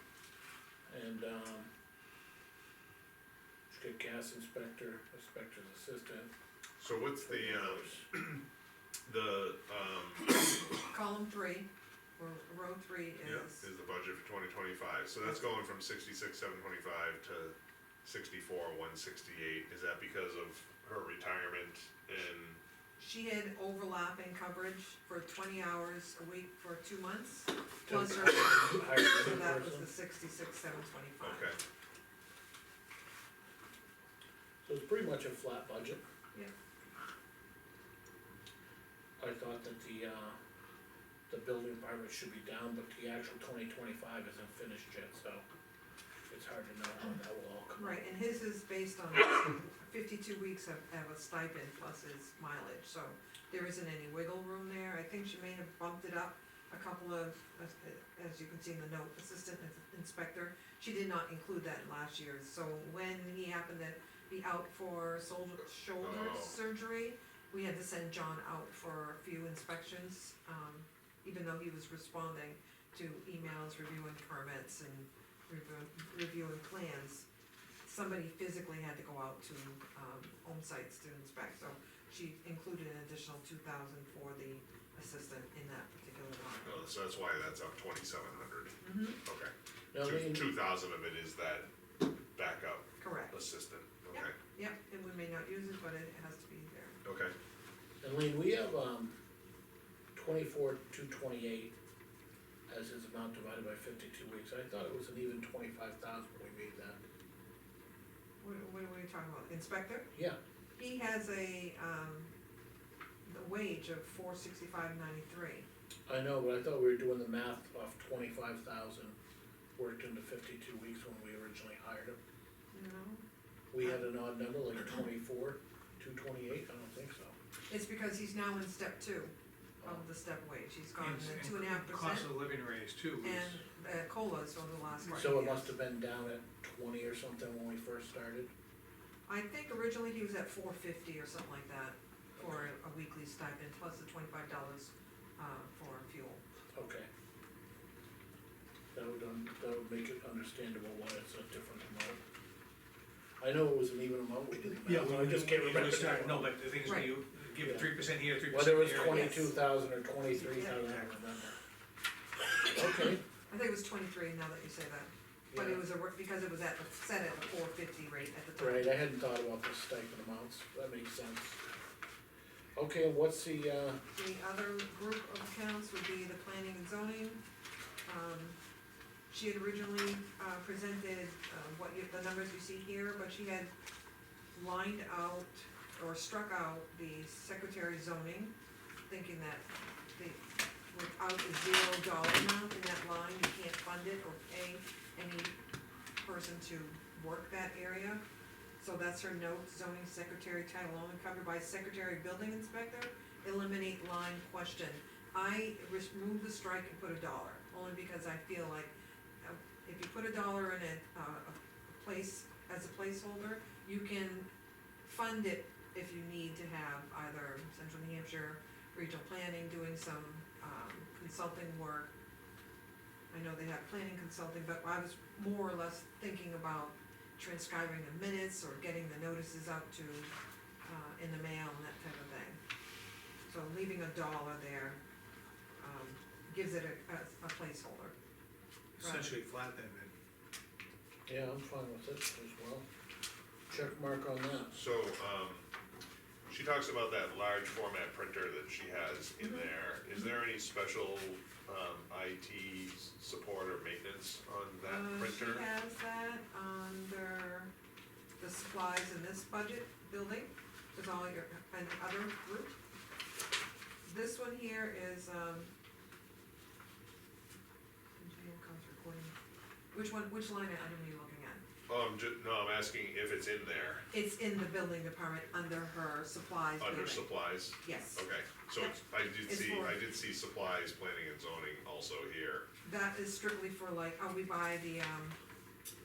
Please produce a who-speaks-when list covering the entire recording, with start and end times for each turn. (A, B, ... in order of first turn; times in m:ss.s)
0:00.9-0:01.7 A
0:03.7-0:06.3 A
0:06.8-0:08.4 B
0:07.2-0:08.1 A
0:09.0-0:10.3 B
0:10.9-0:13.7 C
0:13.2-0:22.6 B
0:23.0-0:31.5 C
0:27.9-0:29.9 A
0:31.2-0:31.6 B
0:34.6-0:36.0 A
0:39.2-0:40.4 A
0:41.3-0:45.4 A
0:46.3-0:48.0 A
0:47.8-1:17.2 C
1:06.0-1:06.5 B
1:17.8-1:26.8 C
1:26.6-1:31.7 B
1:28.8-1:29.2 C
1:29.9-1:30.5 A
1:32.3-1:34.4 B
1:33.0-1:33.3 C
1:34.1-1:37.0 C
1:37.0-1:37.3 B
1:38.0-1:39.2 A
1:40.1-1:41.7 A
1:42.7-1:47.0 A
1:48.4-1:50.1 C
1:50.8-1:52.3 C
1:53.2-1:55.7 C
1:56.1-1:59.2 A
1:59.8-2:02.2 A
2:02.7-2:03.2 C
2:03.7-2:07.4 A
2:07.7-2:12.3 C
2:11.0-2:13.6 D
2:13.2-2:15.7 C
2:15.2-2:18.5 A
2:19.3-2:26.4 C
2:22.4-2:22.7 A
2:26.7-2:27.1 A
2:28.9-2:32.2 A
2:33.4-2:36.5 A
2:34.8-2:39.4 D
2:36.8-2:37.1 C
2:37.6-2:37.9 A
2:38.4-2:41.6 A
2:39.0-2:39.6 C
2:40.5-2:41.0 C
2:42.7-2:43.2 A
2:43.0-2:48.9 C
2:45.5-2:45.8 A
2:48.6-2:51.6 A
2:52.7-2:54.0 A
2:54.1-2:57.4 C
2:58.0-2:58.6 C
2:59.3-3:03.7 C
3:04.5-3:08.5 C
3:09.1-3:15.6 C
3:16.2-3:18.2 C
3:18.8-3:34.5 C
3:35.0-3:42.1 C
3:43.3-3:50.3 C
3:50.8-3:52.6 C
3:53.5-3:55.0 C
3:55.8-3:58.1 C
3:59.0-3:59.4 C
3:59.0-4:00.1 D
4:01.3-4:02.8 A
4:03.7-4:04.8 A
4:04.7-4:05.7 B
4:06.5-4:15.6 B
4:09.4-4:10.3 C
4:14.8-4:17.7 C
4:18.4-4:22.8 C
4:24.0-4:25.7 C
4:28.2-4:29.3 C
4:29.9-4:31.6 C
4:31.9-4:34.0 B
4:34.1-4:40.0 C
4:36.8-4:42.6 B
4:42.8-4:45.4 C